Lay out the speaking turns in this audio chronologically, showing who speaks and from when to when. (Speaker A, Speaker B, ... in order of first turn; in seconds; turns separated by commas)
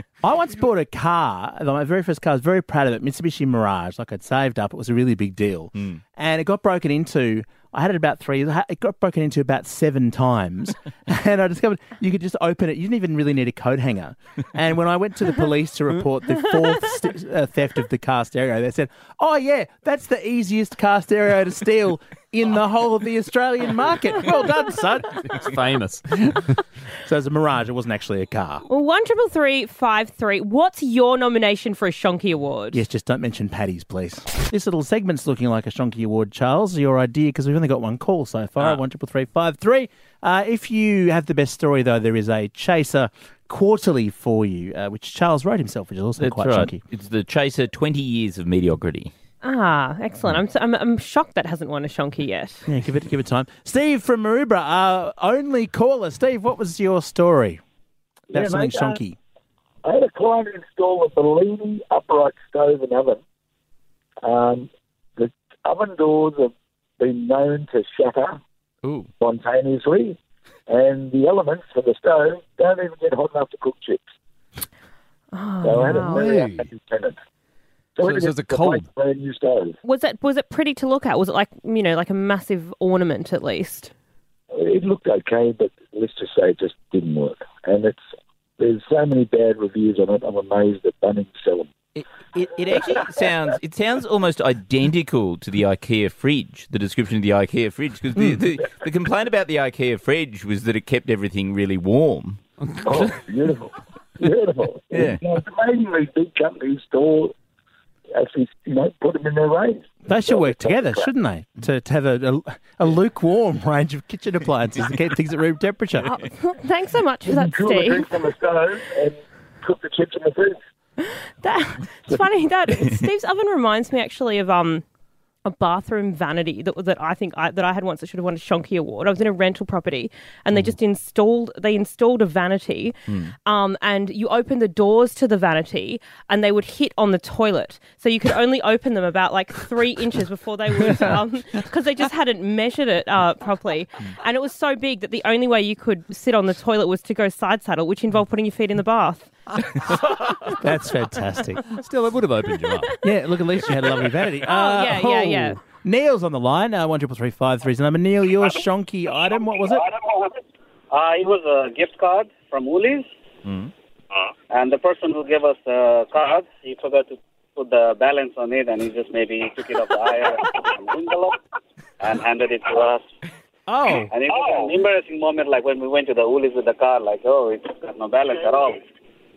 Speaker A: 0.2-25.4, Speaker B: 25.3-26.6, Speaker A: 27.0-28.6, Speaker C: 28.7-32.8, Speaker A: 32.7-46.8, Speaker D: 46.2-49.1, Speaker C: 49.4-52.7, Speaker A: 52.7-57.6, Speaker E: 58.3-59.0, Speaker A: 58.3-59.2, Speaker E: 59.8-63.2, Speaker E: 64.2-68.4, Speaker D: 68.8-69.1, Speaker E: 69.2-70.2, Speaker E: 70.7-74.0, Speaker C: 75.3-76.3, Speaker E: 75.6-77.2, Speaker B: 76.0-76.7, Speaker E: 78.0-79.8, Speaker B: 78.0-78.9, Speaker C: 79.8-83.9, Speaker E: 84.5-88.0, Speaker E: 88.6-91.7, Speaker D: 92.0-102.4, Speaker E: 102.8-107.3, Speaker D: 104.9-105.2, Speaker E: 108.1-111.1, Speaker A: 110.1-116.1, Speaker C: 116.1-118.1, Speaker E: 117.3-120.6, Speaker C: 121.0-124.8, Speaker C: 125.5-149.6, Speaker D: 133.1-133.3, Speaker A: 150.5-151.8, Speaker B: 151.7-153.0, Speaker A: 153.0-159.8, Speaker C: 154.4-155.6, Speaker F: 160.0-160.3, Speaker F: 160.9-163.1, Speaker D: 163.4-163.7, Speaker F: 164.5-171.4, Speaker F: 172.0-173.1, Speaker A: 173.7-174.1, Speaker F: 174.0-178.8